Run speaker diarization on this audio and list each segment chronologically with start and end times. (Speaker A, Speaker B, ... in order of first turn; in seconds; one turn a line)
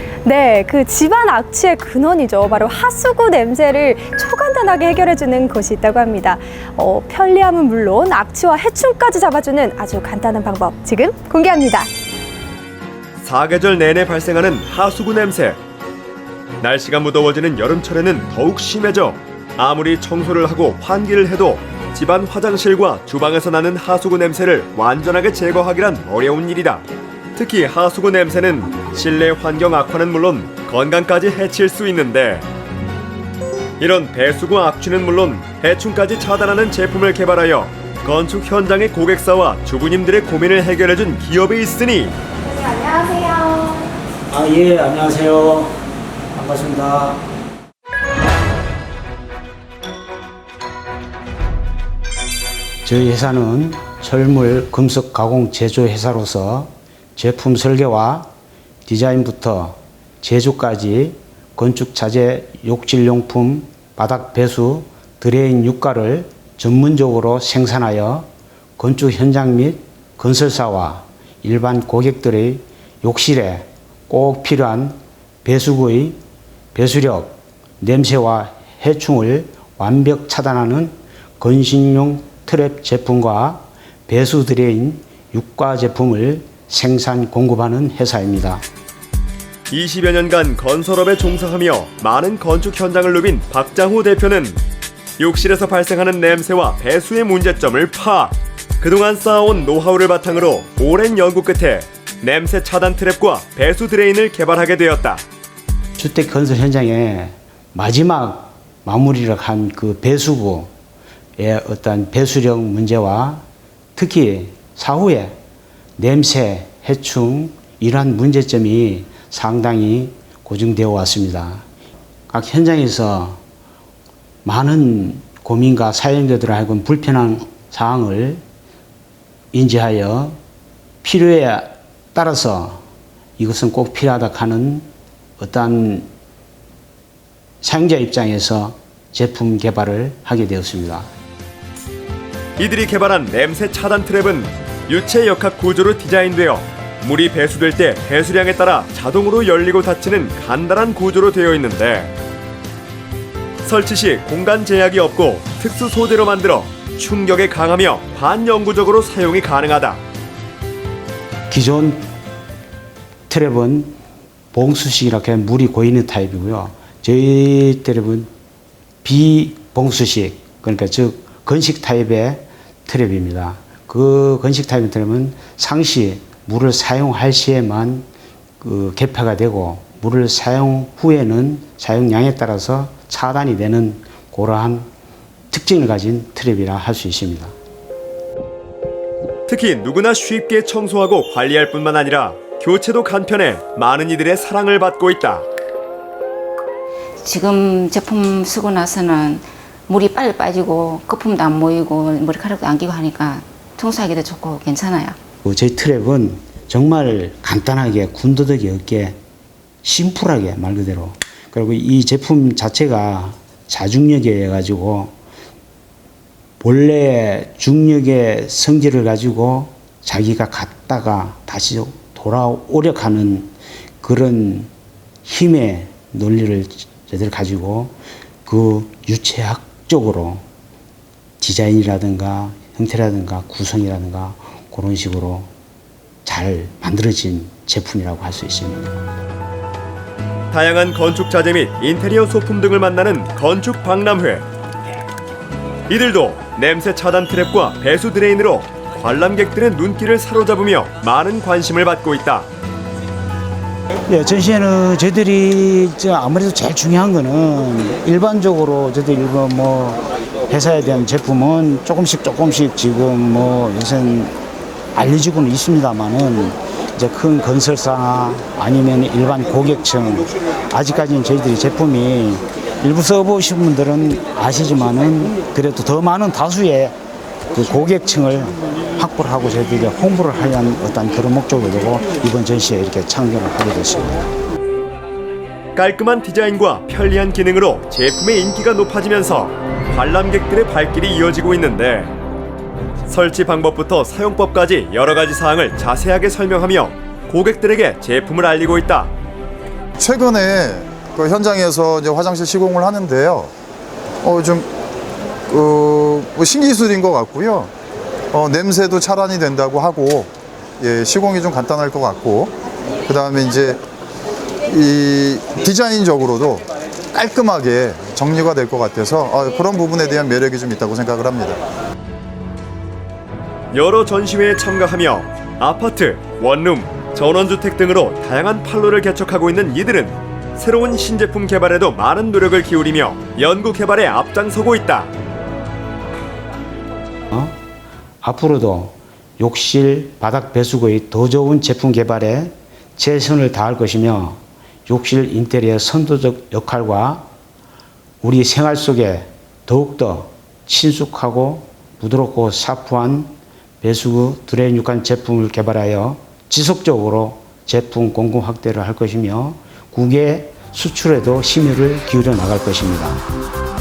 Speaker A: 0.2-11.9
Speaker B: 13.2-15.6
Speaker B: 16.6-32.5
Speaker B: 33.8-42.2
Speaker A: 42.5-43.9
Speaker C: 44.3-45.7
Speaker C: 46.3-47.2
Speaker C: 52.9-58.3
Speaker C: 58.9-76.2
Speaker C: 76.7-88.6
Speaker B: 89.7-94.6
Speaker B: 95.2-105.2
Speaker C: 106.0-110.7
Speaker C: 111.4-115.3
Speaker C: 116.0-121.7
Speaker C: 122.3-123.4
Speaker C: 124.4-128.4
Speaker C: 129.5-130.4
Speaker C: 131.0-132.8
Speaker C: 133.4-134.9
Speaker C: 135.4-136.1
Speaker C: 137.6-141.1
Speaker B: 142.6-152.1
Speaker B: 153.6-160.0
Speaker C: 161.5-162.1
Speaker C: 163.3-163.9
Speaker C: 164.5-168.3
Speaker C: 169.0-178.1
Speaker C: 178.6-184.9
Speaker C: 185.5-187.5
Speaker B: 189.5-195.5
Speaker D: 197.2-205.2
Speaker C: 205.4-209.2
Speaker C: 209.8-215.2
Speaker C: 216.6-224.7
Speaker C: 225.2-230.4
Speaker C: 231.4-235.5
Speaker C: 236.2-239.0
Speaker B: 240.5-244.4
Speaker B: 245.9-252.5
Speaker C: 254.1-264.4
Speaker C: 264.9-276.9
Speaker C: 277.5-284.2
Speaker B: 285.8-292.1
Speaker B: 293.1-299.1
Speaker E: 300.0-303.5
Speaker E: 304.2-304.7
Speaker E: 305.5-307.7
Speaker E: 308.3-312.5
Speaker E: 313.1-313.8
Speaker E: 314.7-321.6
Speaker B: 323.7-335.1
Speaker C: 337.3-337.6
Speaker C: 338.2-347.3
Speaker C: 348.2-363.2